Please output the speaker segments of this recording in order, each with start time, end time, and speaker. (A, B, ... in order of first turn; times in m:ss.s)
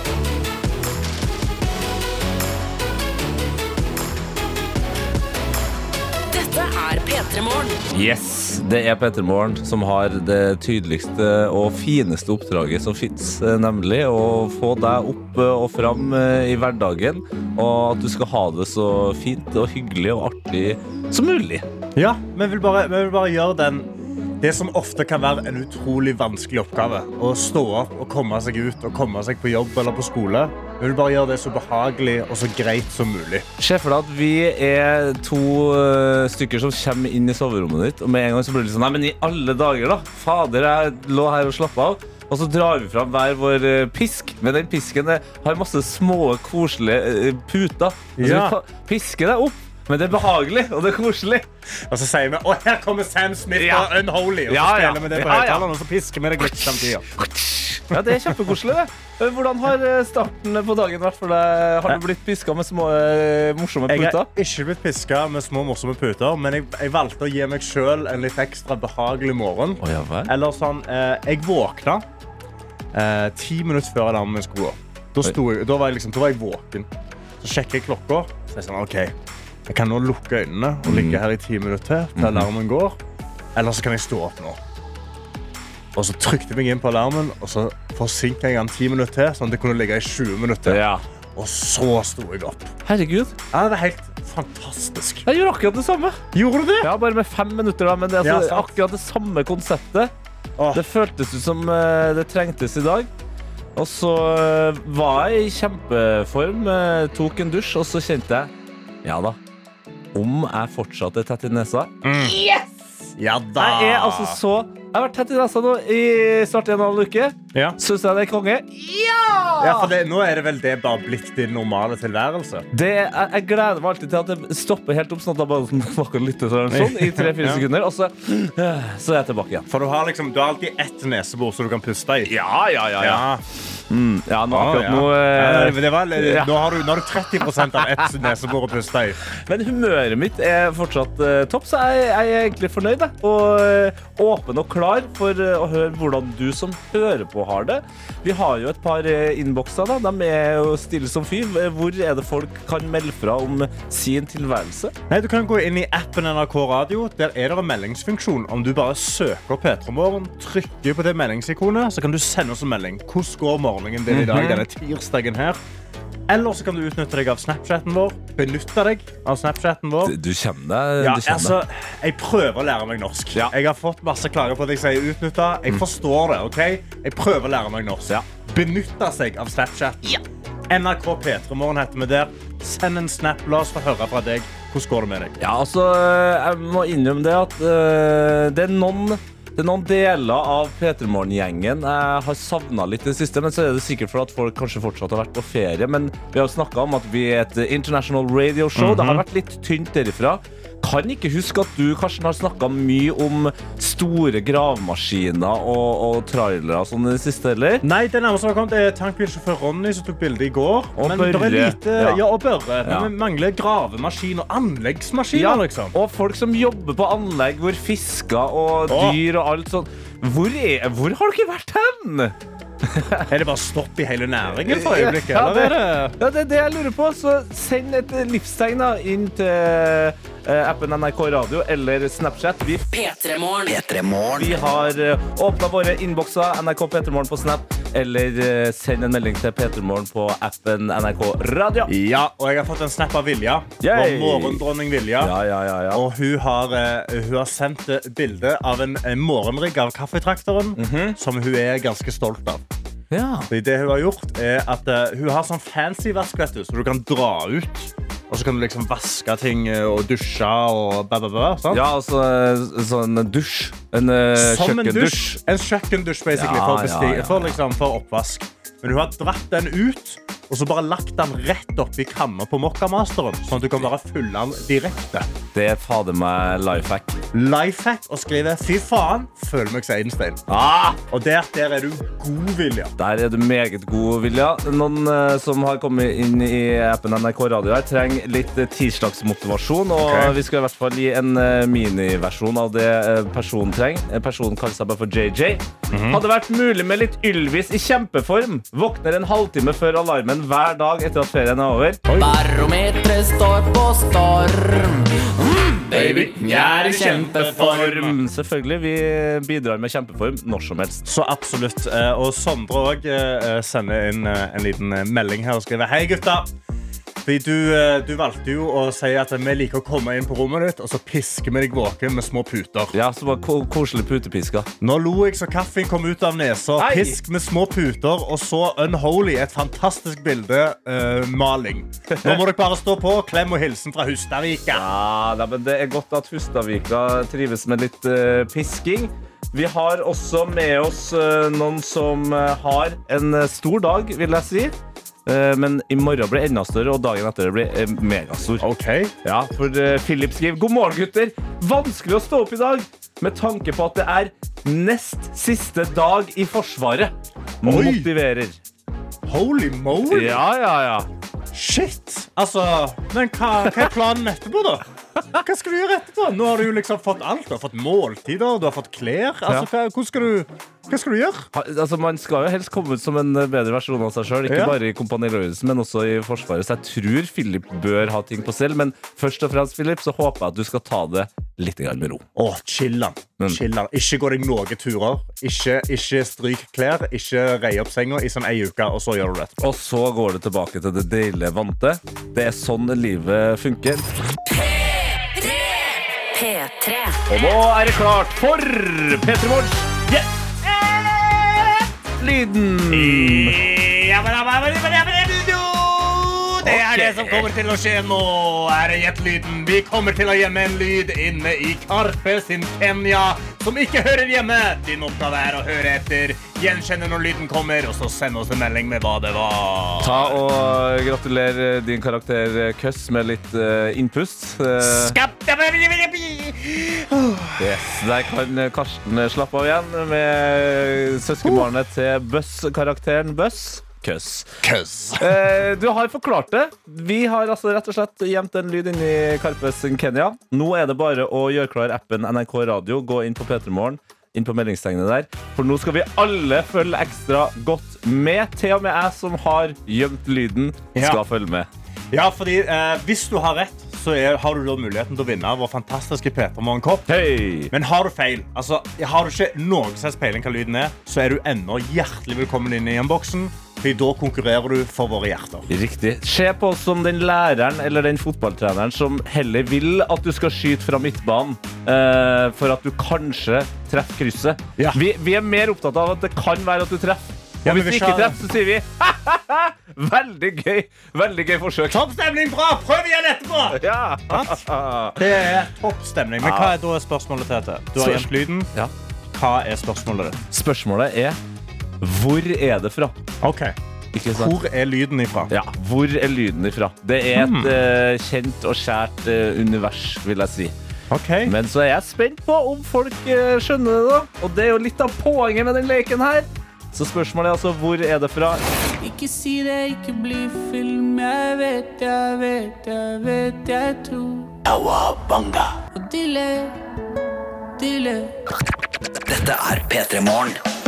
0:06.3-0:07.8 A
0:07.9-0:21.6 B
0:22.0-0:23.9 C
0:24.4-0:33.5 C
0:33.6-0:51.5 B
0:48.2-0:48.6 C
0:51.9-0:57.1 C
0:53.6-0:54.0 B
0:54.5-0:55.7 B
0:57.2-1:04.3 B
0:57.9-0:58.4 C
1:03.9-1:12.0 C
1:09.8-1:10.3 B
1:12.9-1:16.9 C
1:17.4-1:19.1 C
1:19.7-1:23.0 C
1:20.8-1:21.2 B
1:22.2-1:22.5 B
1:23.6-1:24.6 C
1:26.0-1:30.8 C
1:30.7-1:31.0 B
1:31.4-1:32.7 C
1:32.8-1:33.4 B
1:33.5-1:35.3 C
1:35.3-1:36.2 B
1:36.3-1:36.9 C
1:36.8-1:40.1 B
1:38.2-1:38.8 C
1:40.6-1:40.8 C
1:40.7-1:43.1 B
1:43.8-1:48.5 B
1:49.0-1:49.4 B
1:50.1-1:53.1 B
1:52.0-1:52.4 C
1:53.2-1:54.4 C
1:53.6-1:59.9 B
1:59.6-2:02.7 C
2:02.7-2:09.7 B
2:06.7-2:07.6 C
2:09.7-2:12.3 C
2:12.2-2:13.2 B
2:13.0-2:13.4 C
2:13.9-2:16.5 B
2:14.5-2:19.2 C
2:19.4-2:34.9 B
2:35.1-2:45.6 C
2:44.1-2:44.6 B
2:46.3-2:50.2 C
2:50.0-2:51.6 B
2:51.0-3:05.4 C
3:05.4-3:27.8 B
3:18.8-3:19.2 C
3:27.8-3:36.0 C
3:31.0-3:32.2 B
3:32.8-3:33.1 B
3:35.3-3:42.4 B
3:38.9-3:39.2 C
3:42.9-3:43.3 B
3:43.3-3:46.2 C
3:44.6-3:52.9 B
3:52.9-3:53.8 A
3:53.7-3:54.6 D
3:54.4-4:01.9 B
4:01.9-4:05.4 C
4:03.8-4:04.6 B
4:05.2-4:06.0 B
4:05.9-4:12.6 C
4:10.8-4:11.2 B
4:13.1-4:13.5 B
4:13.5-4:21.8 C
4:21.7-4:25.4 B
4:24.4-4:35.3 C
4:26.3-4:27.6 B
4:35.5-4:37.3 B
4:37.3-4:40.4 C
4:40.5-4:41.0 B
4:41.1-4:42.9 C
4:43.0-5:02.0 B
4:50.0-4:50.4 C
4:55.9-4:56.2 C
5:02.1-5:02.4 C
5:02.2-5:07.5 E
5:05.9-5:08.2 C
5:06.0-5:06.3 B
5:07.4-5:11.0 B
5:11.0-5:16.5 C
5:17.2-5:22.9 C
5:22.9-5:24.7 B
5:24.8-5:34.9 C
5:26.8-5:27.2 B
5:32.1-5:32.4 B
5:34.7-5:44.8 B
5:45.3-5:48.7 B
5:48.6-5:49.1 C
5:49.2-5:58.6 B
5:57.6-5:58.1 C
5:59.3-6:00.4 C
6:00.1-6:01.1 B
6:01.5-6:11.5 C
6:11.5-6:22.3 B
6:14.5-6:14.8 C
6:22.4-6:29.5 C
6:29.6-6:34.1 B
6:35.4-6:37.2 A
6:37.3-6:40.1 B
6:40.1-6:41.9 C
6:42.2-6:43.6 B
6:42.9-7:00.4 C
6:46.6-6:47.5 B
7:00.0-7:05.2 B
7:04.8-7:07.8 C
7:07.6-7:14.5 B
7:11.4-7:11.7 C
7:14.6-7:15.4 C
7:15.2-7:31.7 B
7:31.0-7:31.2 C
7:32.1-7:37.1 C
7:37.1-7:37.7 B
7:37.7-7:45.7 C
7:45.7-8:02.0 B
7:57.6-7:58.4 C
8:01.9-8:04.6 C
8:03.7-8:05.2 B
8:05.2-8:08.7 C
8:06.4-8:06.8 B
8:08.0-8:08.9 B
8:09.3-8:10.4 C
8:10.5-8:11.4 B
8:12.0-8:13.2 B
8:13.4-8:13.8 C
8:14.1-8:14.6 B
8:14.3-8:15.5 C
8:15.5-8:20.8 B
8:17.3-8:17.8 C
8:21.1-8:21.5 C
8:21.4-8:28.6 B
8:29.0-8:34.5 E
8:34.7-8:35.7 D
8:36.0-8:36.8 E
8:37.8-8:38.3 E
8:39.3-8:40.6 D